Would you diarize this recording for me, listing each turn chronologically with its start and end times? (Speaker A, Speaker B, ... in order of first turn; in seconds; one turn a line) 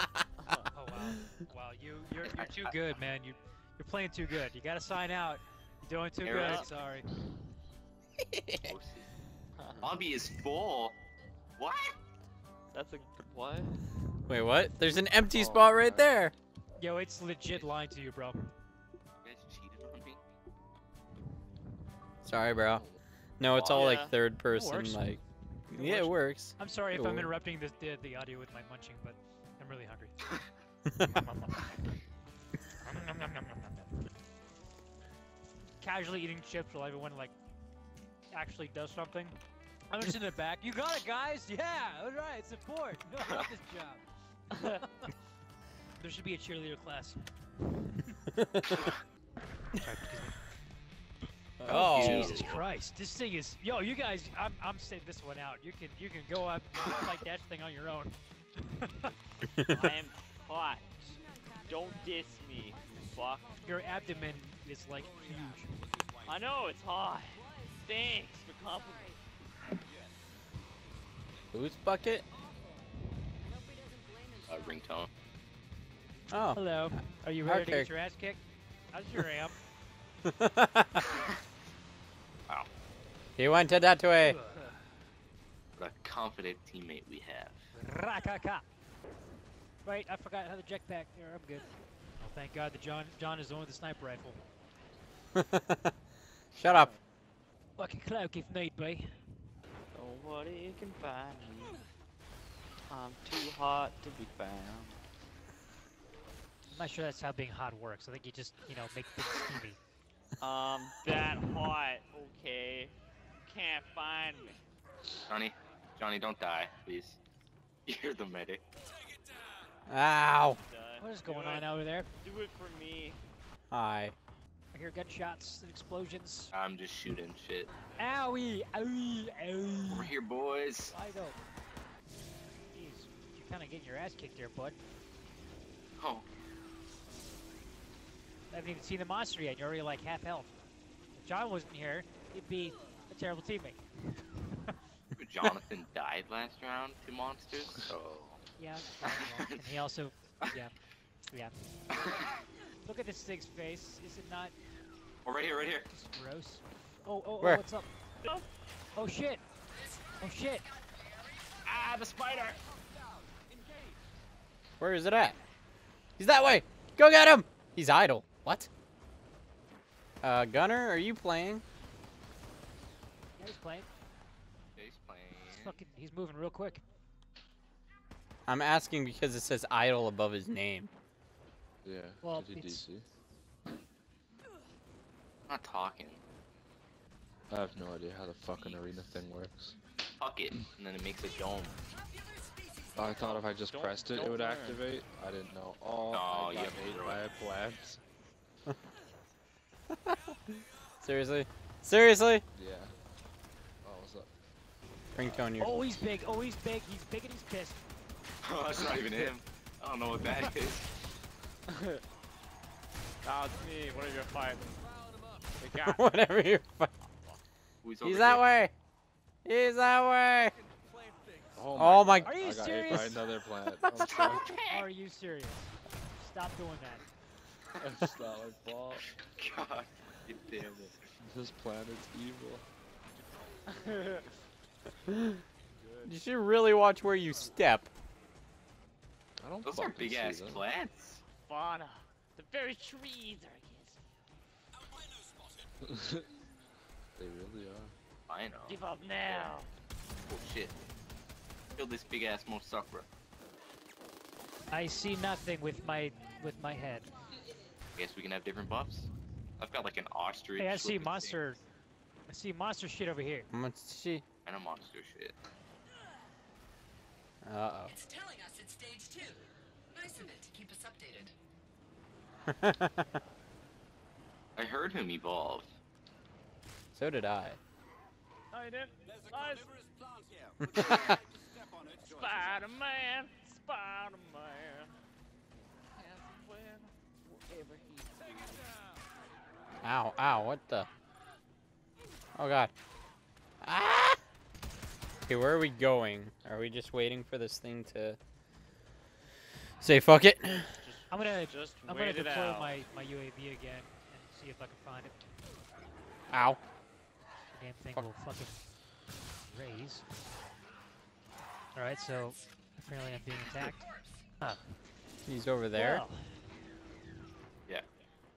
Speaker A: 0.7-7.1
Speaker B: 2.2-2.7
Speaker B: 6.2-6.7
Speaker C: 6.3-6.7
Speaker D: 8.3-8.7
Speaker B: 8.6-9.1
Speaker B: 9.8-11.0
Speaker B: 11.6-12.0
Speaker C: 12.7-13.8
Speaker D: 14.3-16.3
Speaker E: 15.3-16.1
Speaker A: 16.8-18.5
Speaker B: 19.2-20.2
Speaker D: 22.2-22.9
Speaker E: 22.7-23.0
Speaker D: 23.4-27.3
Speaker B: 23.5-23.9
Speaker C: 23.6-24.1
Speaker A: 24.5-25.1
Speaker A: 25.7-30.2
Speaker A: 31.1-32.0
Speaker A: 32.8-34.0
Speaker A: 35.8-37.3
Speaker A: 38.3-39.3
Speaker A: 39.9-44.0
Speaker A: 44.6-45.1
Speaker A: 46.0-48.2
Speaker D: 48.4-48.8
Speaker A: 49.8-50.4
Speaker D: 51.6-52.5
Speaker A: 51.7-58.2
Speaker B: 51.7-52.6
Speaker A: 58.7-59.1
Speaker C: 59.7-63.5
Speaker A: 63.6-65.8
Speaker C: 66.2-69.2
Speaker D: 71.5-72.2
Speaker B: 74.5-75.1
Speaker D: 76.3-76.6
Speaker A: 76.5-78.4
Speaker D: 77.5-77.9
Speaker A: 78.9-79.6
Speaker D: 80.3-81.0
Speaker D: 83.4-84.4
Speaker A: 84.2-84.7
Speaker B: 85.8-87.6
Speaker A: 87.8-88.7
Speaker A: 89.8-91.7
Speaker A: 92.2-94.4
Speaker D: 95.4-95.9
Speaker D: 96.5-96.9
Speaker A: 97.8-99.1
Speaker C: 99.9-101.8
Speaker C: 102.9-105.0
Speaker A: 106.7-109.8
Speaker C: 110.4-114.6
Speaker B: 115.3-117.2
Speaker B: 117.9-118.6
Speaker D: 119.9-120.6
Speaker C: 120.5-121.7
Speaker A: 121.0-122.1
Speaker C: 122.2-123.2
Speaker D: 123.7-124.2
Speaker A: 124.7-126.5
Speaker B: 126.5-127.7
Speaker A: 128.0-130.1
Speaker B: 129.9-130.9
Speaker A: 130.9-131.4
Speaker A: 132.7-134.8
Speaker B: 136.0-136.3
Speaker A: 138.5-140.6
Speaker A: 141.2-144.2
Speaker B: 145.2-148.4
Speaker A: 148.6-150.8
Speaker B: 149.0-149.6
Speaker A: 151.3-151.7
Speaker A: 152.8-154.6
Speaker B: 155.2-155.9
Speaker A: 155.8-157.9
Speaker A: 158.9-159.4
Speaker A: 160.2-160.7
Speaker B: 161.8-162.5
Speaker D: 164.8-165.4
Speaker D: 166.2-168.7
Speaker D: 170.2-171.6
Speaker A: 173.4-173.9
Speaker B: 174.8-175.8
Speaker A: 175.5-176.8
Speaker D: 178.5-180.9
Speaker E: 181.8-183.1
Speaker A: 182.2-182.8
Speaker B: 185.5-186.2
Speaker E: 187.5-189.8
Speaker B: 190.2-191.8
Speaker E: 192.9-198.0
Speaker C: 193.3-194.9
Speaker B: 196.1-197.2
Speaker D: 200.1-200.3
Speaker D: 201.0-202.4
Speaker E: 202.5-202.9
Speaker E: 203.8-204.3
Speaker D: 205.2-205.8
Speaker A: 205.6-207.8
Speaker B: 208.4-210.9
Speaker C: 211.7-212.0
Speaker C: 213.2-214.8
Speaker C: 215.6-216.0
Speaker D: 215.8-216.9
Speaker B: 217.8-218.4
Speaker D: 218.0-218.7
Speaker D: 219.4-220.6
Speaker E: 221.6-224.4
Speaker D: 221.8-222.4
Speaker A: 222.2-223.3
Speaker D: 223.8-224.3
Speaker B: 224.0-224.9
Speaker A: 224.6-227.1
Speaker E: 227.8-229.0
Speaker B: 229.1-231.0
Speaker E: 231.2-232.7
Speaker C: 233.7-234.3
Speaker D: 235.1-235.4
Speaker C: 235.8-236.1
Speaker D: 236.0-237.9
Speaker E: 239.4-240.6
Speaker B: 239.7-241.2
Speaker C: 241.4-244.0
Speaker E: 245.8-246.3
Speaker E: 247.2-247.9
Speaker B: 248.3-249.5
Speaker C: 248.7-249.7
Speaker B: 250.3-250.8
Speaker B: 251.7-253.1
Speaker A: 254.7-257.1
Speaker B: 258.0-261.5
Speaker A: 260.6-261.6
Speaker A: 262.3-263.5
Speaker D: 263.5-264.2
Speaker B: 264.4-265.4
Speaker D: 267.4-268.0
Speaker F: 268.0-269.3
Speaker F: 270.0-271.3
Speaker D: 272.5-273.1
Speaker B: 274.6-275.8
Speaker D: 276.9-277.6
Speaker C: 278.5-279.8
Speaker C: 280.6-281.3
Speaker C: 281.9-284.9
Speaker C: 286.0-288.7
Speaker D: 289.8-290.9
Speaker D: 292.4-292.7
Speaker D: 293.6-294.2
Speaker D: 295.3-298.2
Speaker D: 299.8-300.8
Speaker C: 300.8-302.8
Speaker A: 301.1-305.2
Speaker D: 306.3-306.6
Speaker A: 307.5-308.6
Speaker A: 309.5-310.1
Speaker A: 311.8-313.8
Speaker D: 315.3-316.1
Speaker A: 315.8-316.3